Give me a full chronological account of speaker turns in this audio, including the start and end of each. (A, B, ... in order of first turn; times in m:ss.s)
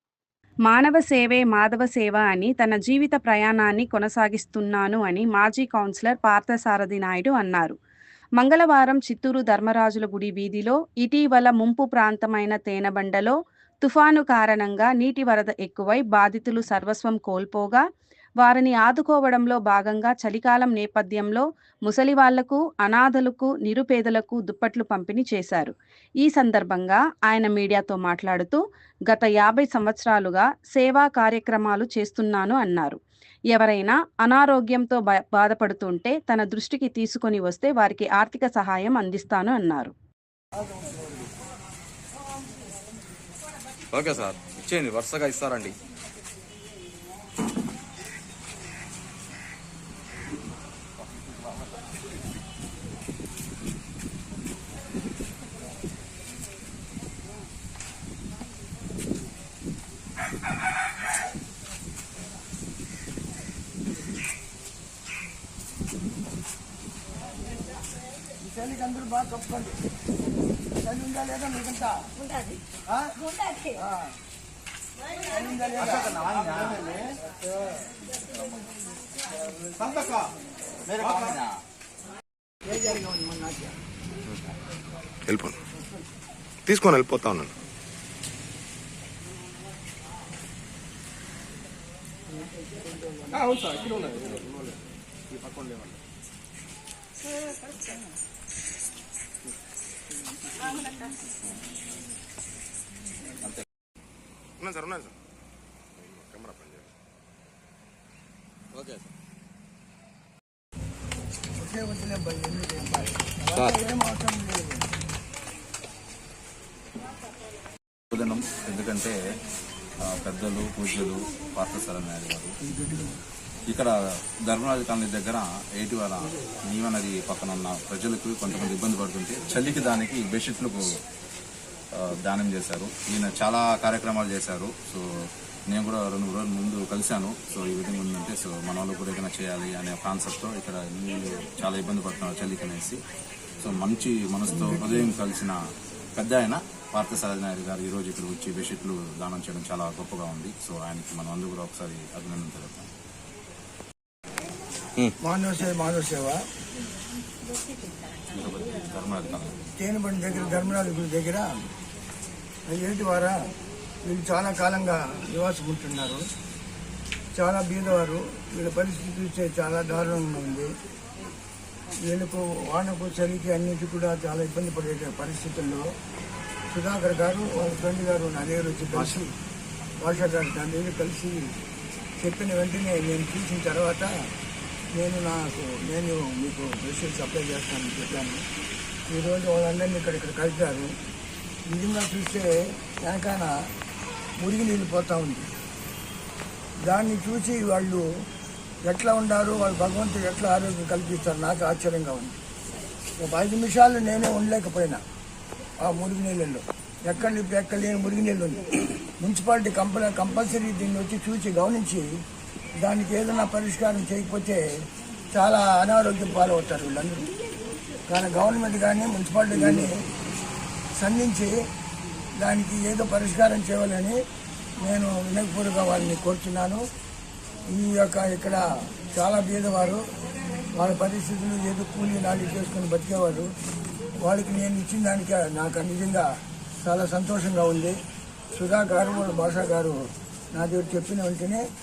0:00.7-0:07.8 A
0:08.4-0:17.8 A
0:18.4-0:39.9 A
0:43.9-0:45.8 B
1:08.4-1:09.8 C
1:10.8-1:12.1 C
1:13.7-1:14.1 C
1:15.2-1:16.7 C
1:20.9-1:21.4 B
1:22.7-1:23.8 C
1:25.3-1:25.6 D
1:26.7-1:27.5 D
1:26.7-1:27.4 B
1:44.6-1:45.1 D
1:46.1-1:46.9 D
1:48.7-1:49.1 B
1:51.6-1:54.9 C
1:58.1-1:59.2 B
2:00.0-2:02.6 B
2:02.6-2:03.2 C
2:04.5-2:10.8 B
2:12.0-2:15.0 B
2:15.7-2:23.0 B
2:23.6-2:25.6 B
2:26.2-2:32.9 B
2:35.2-2:36.4 C
2:38.3-2:39.6 B
2:39.8-2:41.5 C
2:42.7-2:43.4 C
2:44.1-2:46.2 C
2:47.4-2:50.7 C
2:52.1-2:55.8 C
2:56.7-2:59.3 C
3:00.0-3:01.5 C
3:02.2-3:04.1 C
3:05.0-3:08.4 C
3:09.1-3:10.9 C
3:11.7-3:13.5 C
3:14.4-3:15.5 C
3:16.9-3:18.0 C
3:18.9-3:22.4 C
3:23.2-3:25.0 C
3:25.8-3:32.1 C
3:32.8-3:34.6 C
3:35.3-3:37.3 C
3:38.1-3:40.0 C
3:41.0-3:41.5 C
3:42.4-3:44.2 C
3:44.8-3:46.9 C
3:47.7-3:50.0 C
3:50.8-3:53.5 C
3:54.2-3:58.0 C
3:58.5-4:00.0 C
4:00.5-4:01.7 C